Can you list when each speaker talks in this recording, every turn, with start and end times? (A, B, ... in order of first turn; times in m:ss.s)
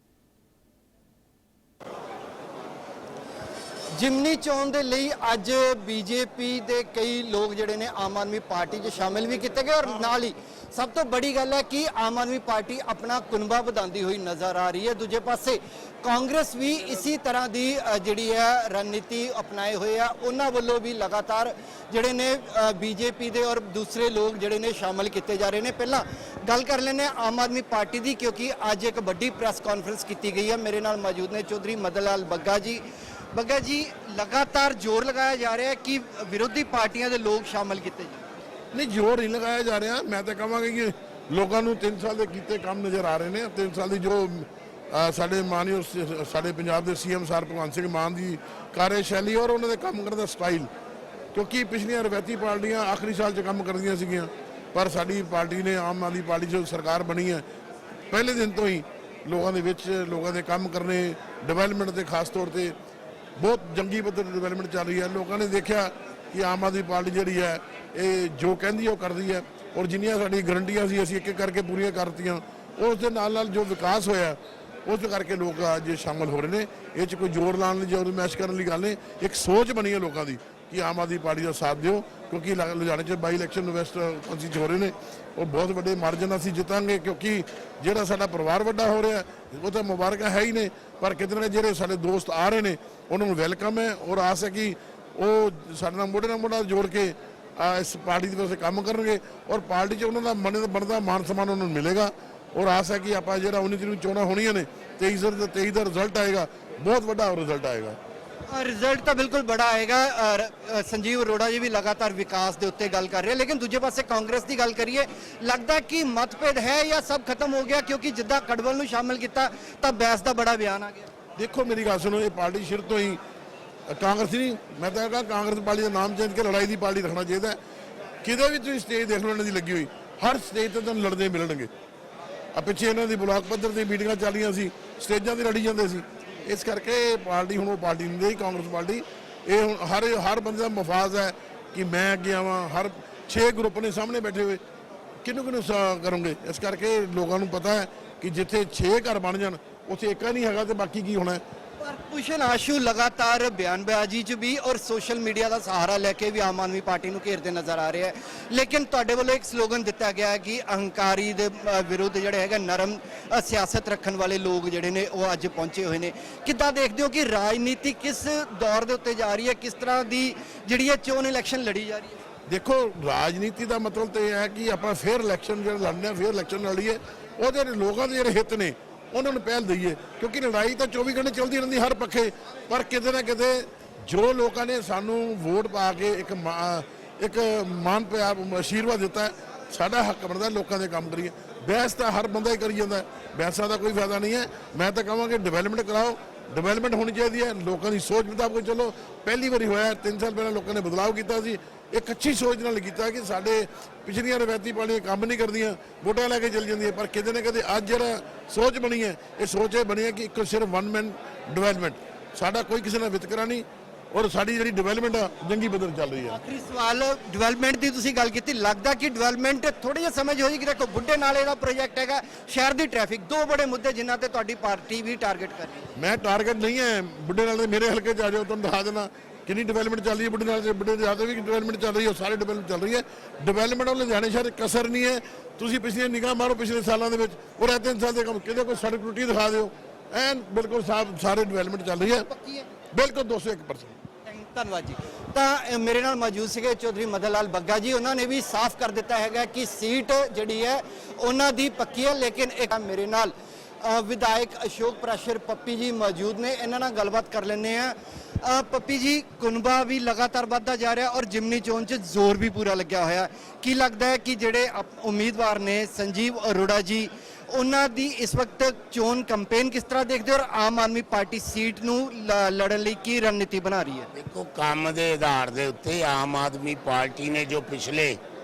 0:04.0-0:38.2 A
0:38.7-0:50.7 B
0:51.3-0:57.4 B
0:58.1-1:02.8 B
1:03.4-1:48.0 B
1:48.5-2:01.1 A
2:01.4-2:03.2 B
2:03.9-2:07.6 B
2:08.2-2:11.7 B
2:12.5-2:24.6 B
2:25.2-2:31.4 B
2:31.8-2:52.2 A
2:52.5-3:36.4 B
3:36.3-3:45.9 A
3:46.0-4:02.3 B
4:02.3-4:02.7 A
4:02.9-4:04.0 B
4:04.3-4:34.1 A
4:34.1-4:38.2 C